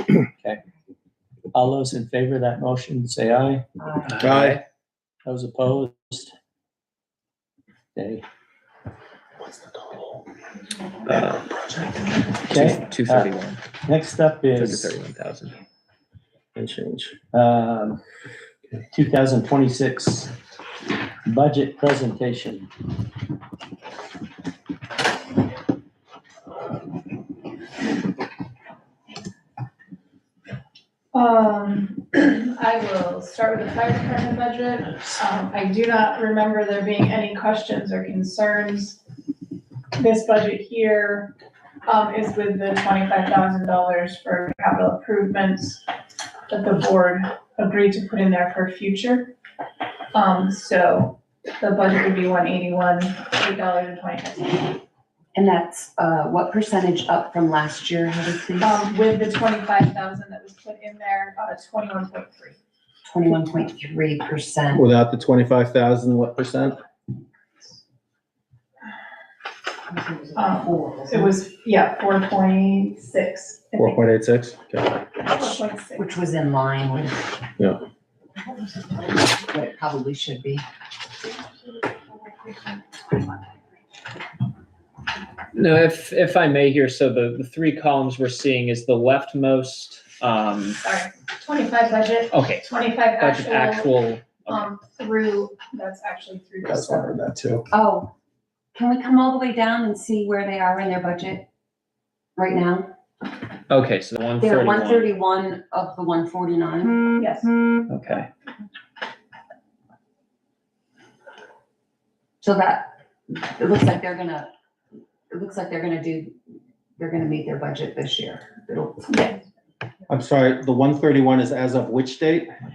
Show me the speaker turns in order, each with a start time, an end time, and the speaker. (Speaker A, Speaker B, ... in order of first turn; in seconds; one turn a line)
Speaker A: 1.5-3.6
Speaker B: 3.8-4.1
Speaker C: 4.0-4.6
Speaker D: 4.2-4.6
Speaker A: 5.2-6.3
Speaker A: 7.9-8.2
Speaker D: 9.4-10.2
Speaker C: 11.1-11.4
Speaker D: 11.1-12.0
Speaker C: 12.5-13.6
Speaker A: 12.5-13.3
Speaker A: 13.8-15.0
Speaker C: 14.5-15.6
Speaker D: 16.5-17.2
Speaker A: 17.3-18.0
Speaker A: 18.9-20.3
Speaker A: 21.2-22.7
Speaker E: 31.1-39.0
Speaker E: 40.0-41.3
Speaker E: 41.9-45.8
Speaker E: 46.5-49.3
Speaker E: 50.1-54.8
Speaker B: 55.3-58.8
Speaker E: 58.6-62.6
Speaker B: 63.0-64.8
Speaker D: 64.7-66.8
Speaker B: 69.9-71.3
Speaker E: 70.3-74.0
Speaker D: 73.8-75.0
Speaker E: 75.2-76.1
Speaker B: 76.0-77.3
Speaker B: 79.4-80.6
Speaker E: 82.4-83.2
Speaker C: 85.5-90.8
Speaker E: 90.8-97.2
Speaker C: 92.3-92.7
Speaker C: 93.2-94.6
Speaker D: 96.6-97.7
Speaker B: 97.7-98.1
Speaker B: 98.7-101.5
Speaker B: 102.3-102.9
Speaker C: 103.7-105.1
Speaker B: 104.4-107.1
Speaker E: 107.2-107.5
Speaker C: 107.9-108.3
Speaker B: 112.4-114.5
Speaker B: 115.3-116.4
Speaker B: 117.0-119.3
Speaker E: 119.1-119.3
Speaker D: 120.1-122.5